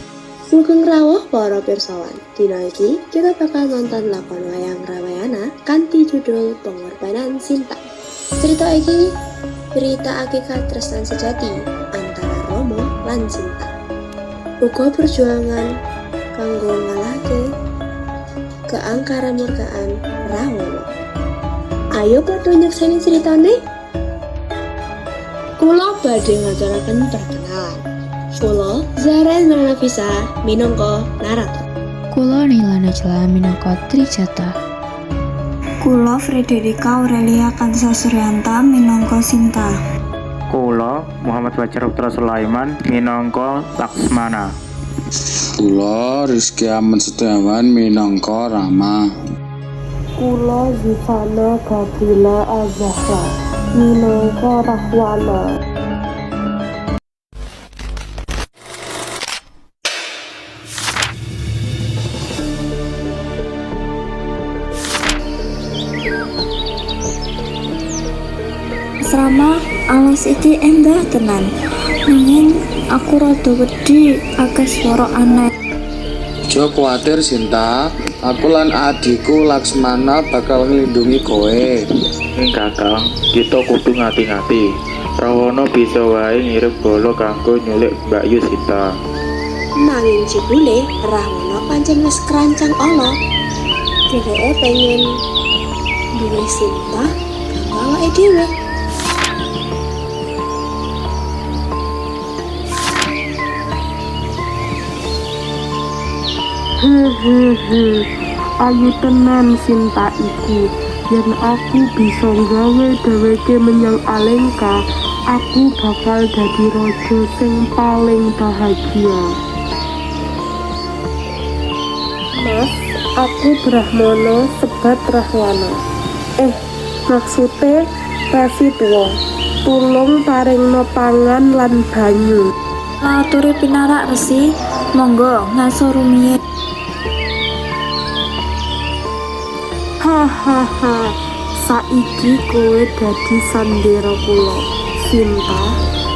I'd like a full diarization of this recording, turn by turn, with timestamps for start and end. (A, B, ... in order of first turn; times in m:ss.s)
0:00.5-0:07.8 A
0:08.4-0:09.1 A
0:09.7-0:13.7 A
0:14.6-0:15.7 A
0:16.4-0:17.4 A
0:18.7-0:20.9 A
0:21.9-0:23.6 A
0:25.6-0:27.8 A
0:28.4-0:31.6 A
0:32.1-0:34.6 B
0:35.9-0:39.7 C
0:40.5-0:44.4 D
0:45.6-0:49.0 E
0:50.2-0:55.4 F
1:09.0-1:11.5 C
1:12.1-1:15.5 C
1:16.5-1:21.8 E
1:22.4-1:24.6 D
1:25.2-1:28.8 D
1:29.8-1:33.1 A
1:34.1-1:35.0 A
1:36.1-1:38.5 A
1:46.8-1:48.0 F
1:48.6-1:54.8 F
1:55.3-1:59.3 F
2:02.4-2:02.7 F
2:03.2-2:05.7 F
2:06.4-2:09.1 F
2:09.6-2:12.5 F
2:13.0-2:16.4 C
2:20.0-2:25.7 F